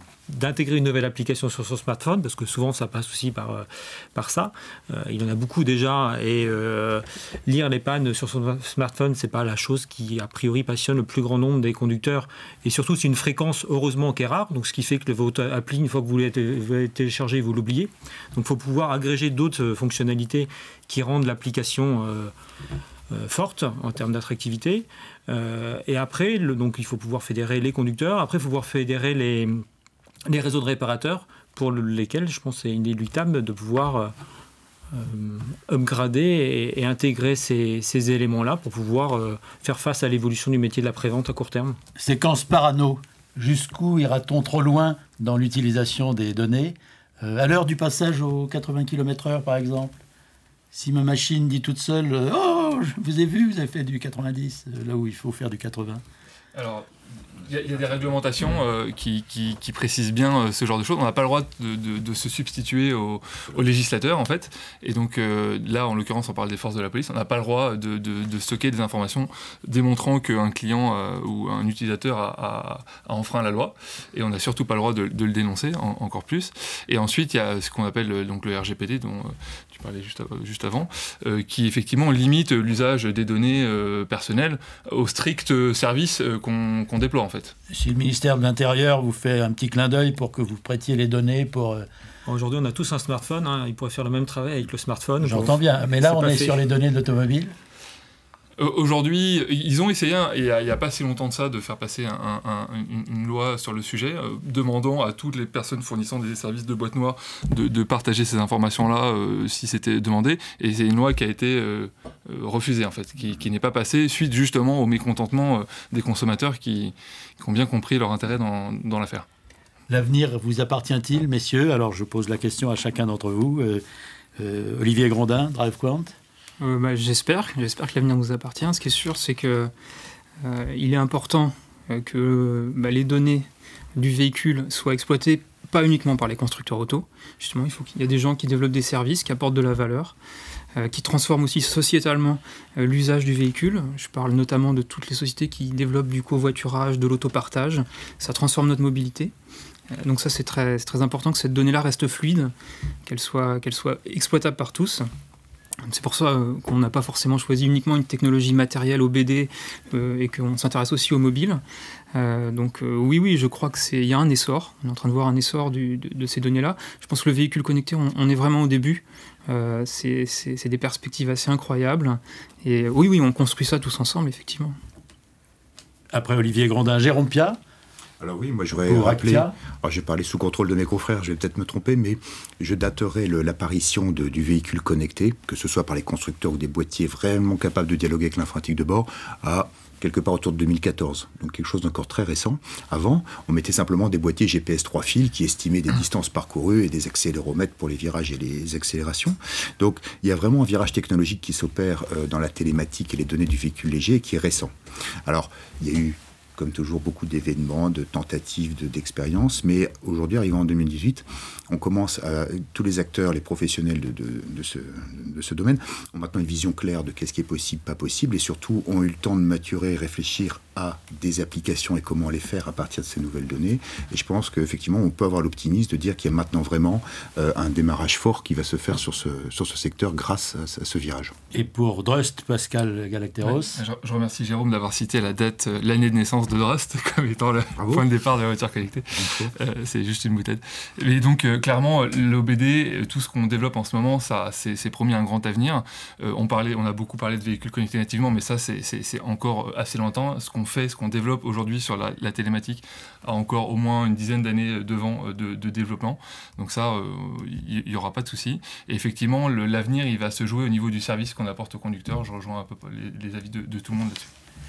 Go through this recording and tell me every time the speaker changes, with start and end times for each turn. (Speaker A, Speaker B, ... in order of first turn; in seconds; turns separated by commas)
Speaker A: 0.3-22.3, Speaker A: 23.1-29.6, Speaker A: 30.3-34.1, Speaker A: 34.9-41.8, Speaker B: 42.0-49.9, Speaker B: 50.7-56.0, Speaker C: 56.5-87.5, Speaker B: 87.7-91.9, Speaker A: 92.3-96.6, Speaker B: 95.2-97.5, Speaker C: 98.6-119.3, Speaker B: 119.9-123.8, Speaker B: 124.4-126.2, Speaker D: 126.6-129.7, Speaker D: 130.4-140.2, Speaker D: 140.8-149.3, Speaker D: 149.9-152.5, Speaker D: 153.1-155.1, Speaker D: 155.8-161.6, Speaker D: 162.1-174.8, Speaker B: 176.1-177.6, Speaker E: 178.2-204.7, Speaker B: 178.8-179.5, Speaker E: 205.3-231.3, Speaker B: 231.5-233.8, Speaker C: 233.4-264.3, Speaker E: 237.8-238.1, Speaker E: 239.2-239.5